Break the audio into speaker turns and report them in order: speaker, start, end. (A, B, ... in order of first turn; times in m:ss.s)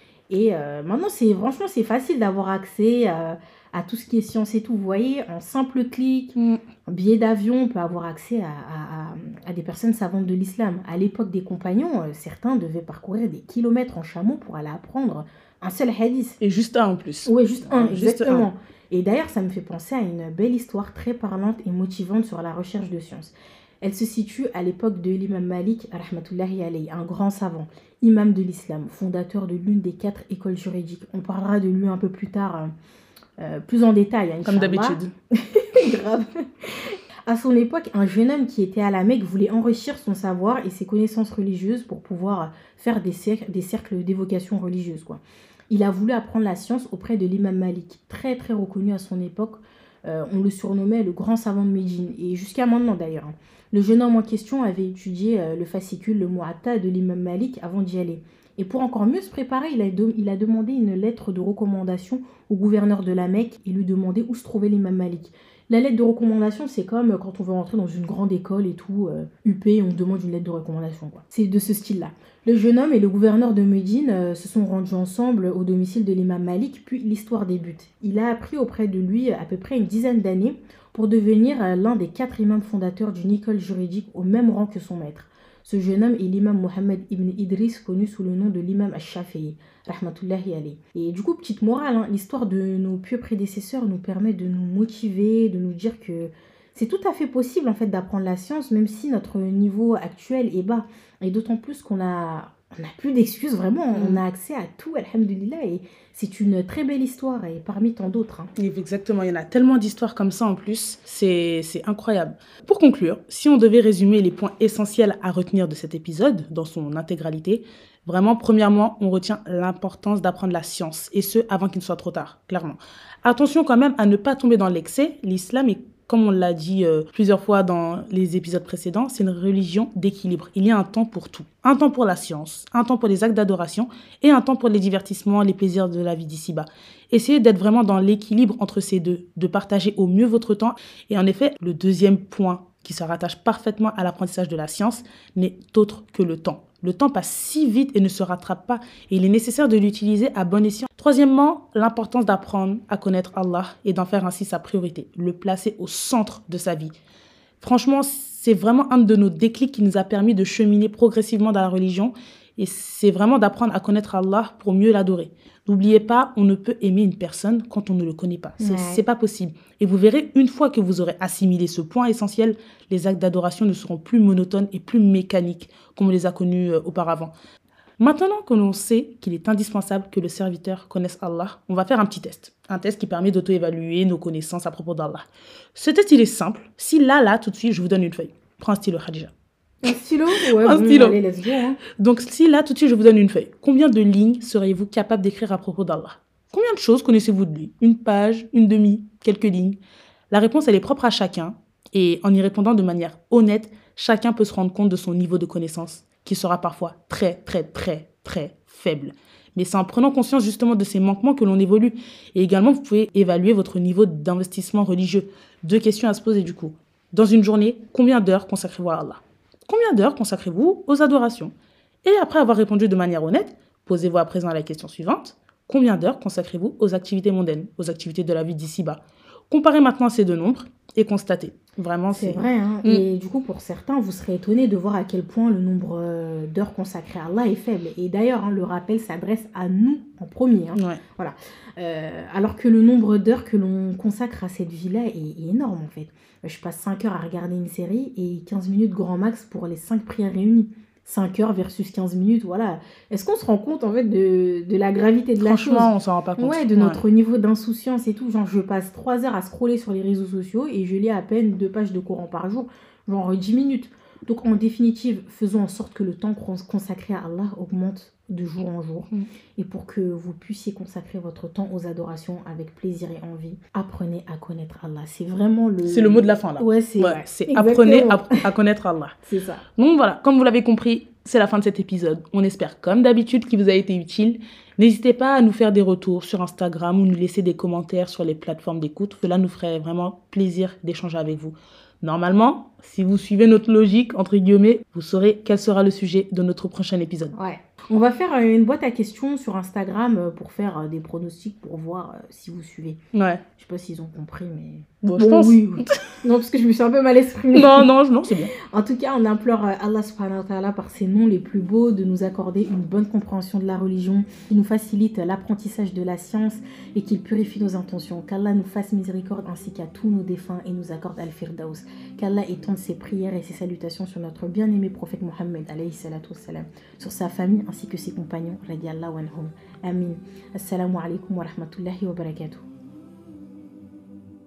0:00.3-0:16.4 A
0:06.4-0:06.6 B
0:16.4-0:18.5 B
0:17.3-0:32.7 A
0:33.4-1:48.5 A
0:34.4-0:35.1 B
1:43.9-1:44.2 B
1:48.6-2:36.9 B
2:37.6-2:57.3 B
2:48.6-2:49.0 A
2:58.0-3:09.3 B
3:09.8-3:11.8 A
3:10.4-3:11.2 B
3:11.9-3:19.8 B
3:20.3-3:53.0 B
3:52.1-4:38.5 A
4:00.8-4:01.0 B
4:15.4-4:17.0 B
4:35.8-4:39.2 B
4:39.2-4:39.6 A
4:39.8-4:57.4 B
4:57.3-5:03.0 A
5:03.1-5:03.4 B
5:03.6-5:07.9 A
5:05.0-5:05.9 B
5:07.5-5:08.5 B
5:08.6-5:32.7 A